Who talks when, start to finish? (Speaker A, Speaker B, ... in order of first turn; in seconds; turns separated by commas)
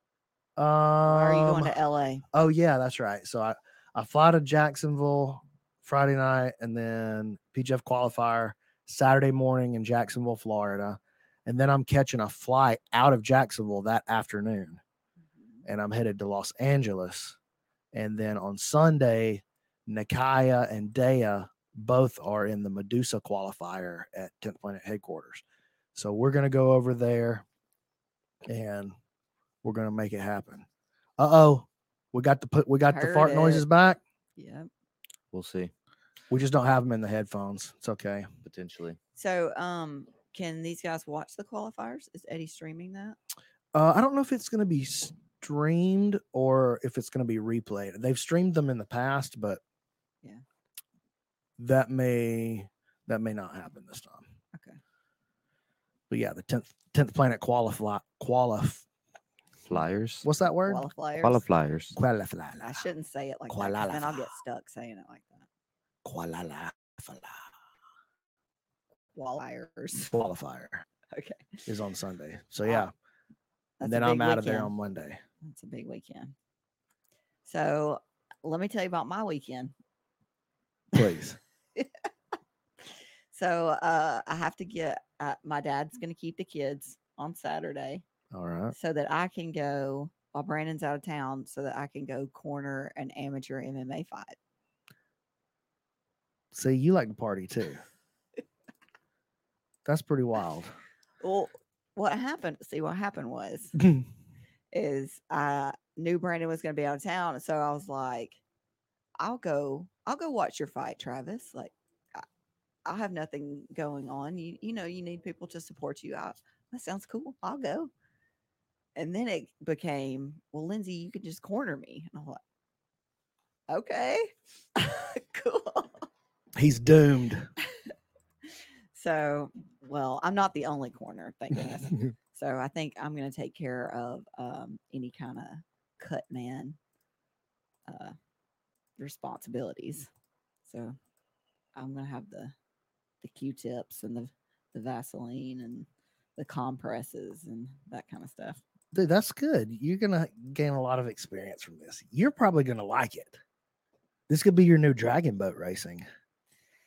Speaker A: 0.6-1.7, Speaker B: 1.1-2.2, Speaker A: 2.3-14.8, Speaker A: 15.7-17.4, Speaker A: 17.9-25.4, Speaker A: 25.9-27.4, Speaker A: 28.5-28.9, Speaker A: 29.6-30.6, Speaker A: 31.2-34.0, Speaker B: 32.9-33.6, Speaker B: 34.4-34.7, Speaker C: 35.3-35.7, Speaker A: 36.3-38.3, Speaker C: 38.4-39.0, Speaker B: 39.1-43.2, Speaker A: 43.7-49.6, Speaker A: 51.6-54.2, Speaker B: 54.5-54.8, Speaker A: 56.1-58.8, Speaker C: 59.7-60.2, Speaker A: 60.2-60.9, Speaker B: 60.6-61.4, Speaker C: 61.2-62.0, Speaker A: 61.9-62.8, Speaker B: 62.6-65.5, Speaker A: 63.5-64.3, Speaker A: 66.0-67.3, Speaker B: 69.1-70.1, Speaker A: 70.0-70.8, Speaker B: 71.1-71.6, Speaker A: 71.7-72.9, Speaker B: 73.8-74.7, Speaker A: 73.8-75.2, Speaker B: 75.4-76.3, Speaker B: 77.4-79.7, Speaker A: 80.9-81.4, Speaker B: 83.3-88.0, Speaker A: 88.3-88.7, Speaker B: 88.7-94.3, Speaker A: 96.5-97.8, Speaker A: 99.8-100.7, Speaker B: 101.2-103.7, Speaker A: 103.8-104.0, Speaker B: 104.7-108.4, Speaker B: 109.2-112.2, Speaker B: 112.8-117.9, Speaker B: 119.0-122.4, Speaker B: 123.7-126.1, Speaker A: 126.5-127.5, Speaker B: 128.9-136.8, Speaker B: 137.9-138.1, Speaker B: 139.0-140.1, Speaker B: 140.7-141.0, Speaker B: 141.7-142.5, Speaker B: 143.2-148.6, Speaker A: 148.9-153.4, Speaker A: 154.3-156.0